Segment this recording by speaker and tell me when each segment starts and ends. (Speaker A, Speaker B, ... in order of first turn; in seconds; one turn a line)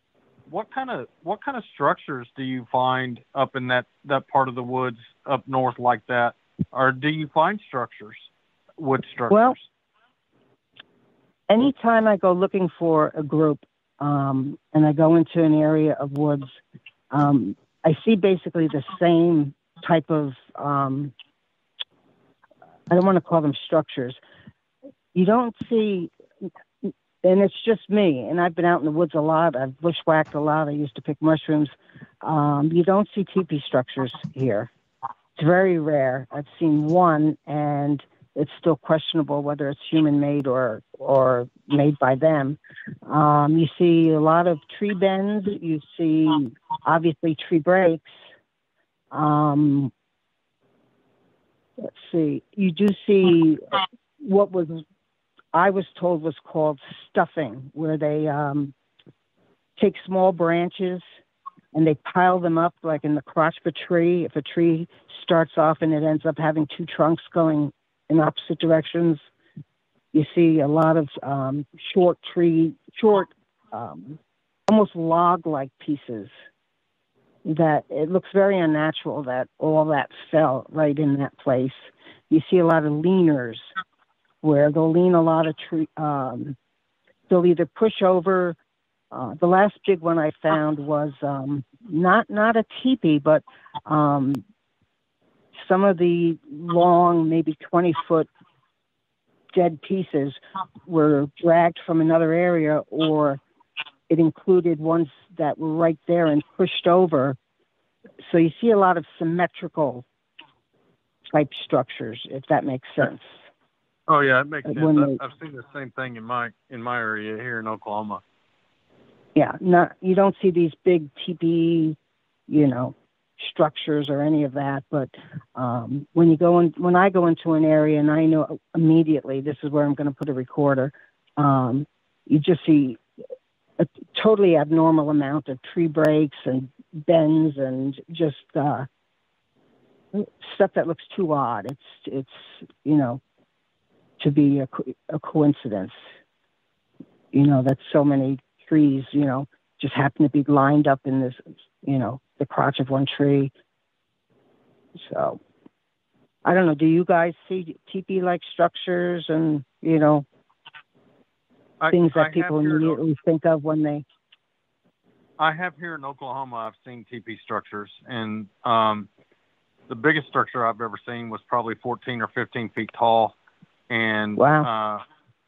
Speaker A: 0.5-8.3
Speaker A: 8.8-9.6
Speaker B: 9.3-9.6
Speaker B: 11.5-16.6
Speaker B: 17.1-21.1
Speaker B: 22.9-24.2
Speaker B: 25.1-26.1
Speaker B: 26.8-34.7
Speaker B: 35.4-48.0
Speaker B: 49.1-49.9
Speaker B: 51.8-54.8
Speaker B: 55.5-58.7
Speaker B: 59.8-61.0
Speaker B: 61.8-69.3
Speaker B: 70.1-76.3
Speaker B: 77.5-83.7
Speaker B: 84.4-86.6
Speaker B: 87.3-88.6
Speaker B: 89.1-94.4
Speaker B: 95.6-98.3
Speaker B: 99.5-103.4
Speaker B: 104.1-107.4
Speaker B: 108.2-110.0
Speaker B: 111.3-113.3
Speaker A: 114.1-118.2
Speaker B: 114.7-115.2
Speaker B: 119.4-122.0
Speaker B: 122.5-133.0
Speaker B: 133.8-138.9
Speaker B: 140.2-143.2
Speaker B: 144.2-146.0
Speaker B: 147.3-153.5
Speaker B: 155.0-155.4
Speaker B: 156.4-160.3
Speaker A: 161.8-163.0
Speaker B: 161.9-164.1
Speaker A: 165.4-169.1
Speaker A: 169.9-173.4
Speaker A: 173.9-175.0
Speaker B: 174.4-174.7